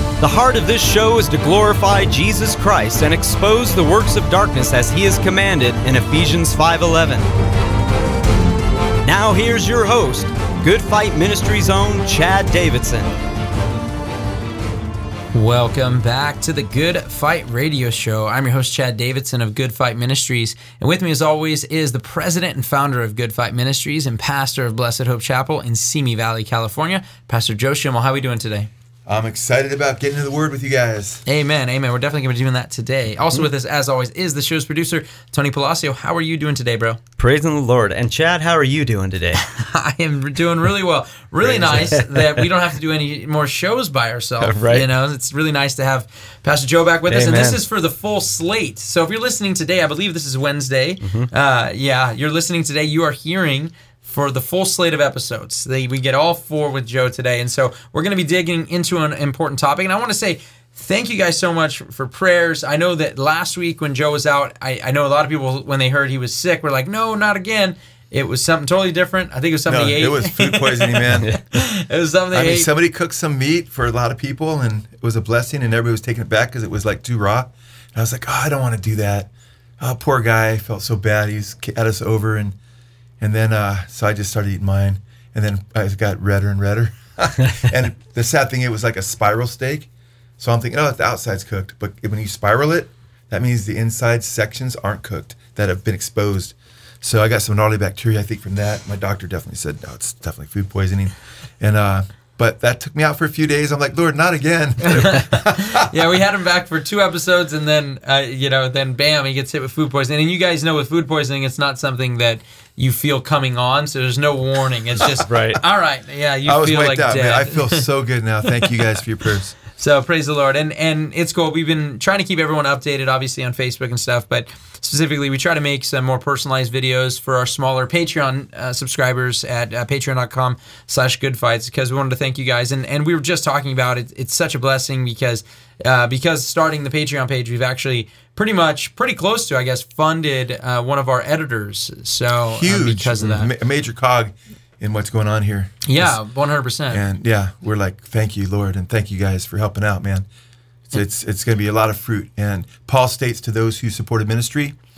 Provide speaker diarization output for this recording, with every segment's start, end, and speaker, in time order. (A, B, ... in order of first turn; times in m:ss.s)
0:00.2-0:07.3 A
0:09.0-0:13.1 A
0:15.3-0:28.7 B
0:29.1-0:31.2 C
0:31.3-0:37.0 B
0:37.2-0:39.4 A
0:39.4-1:12.7 B
0:41.4-0:42.5 A
0:44.4-0:44.9 A
0:47.1-0:47.6 A
1:09.7-1:11.3 C
1:11.1-1:11.4 A
1:12.3-1:22.6 C
1:23.2-1:45.9 C
1:44.9-1:57.8 B
1:55.2-1:55.6 A
1:56.4-1:59.6 C
1:59.7-2:23.5 B
2:22.5-2:26.2 C
2:25.8-2:27.0 B
2:26.9-2:30.3 C
2:30.9-2:34.8 C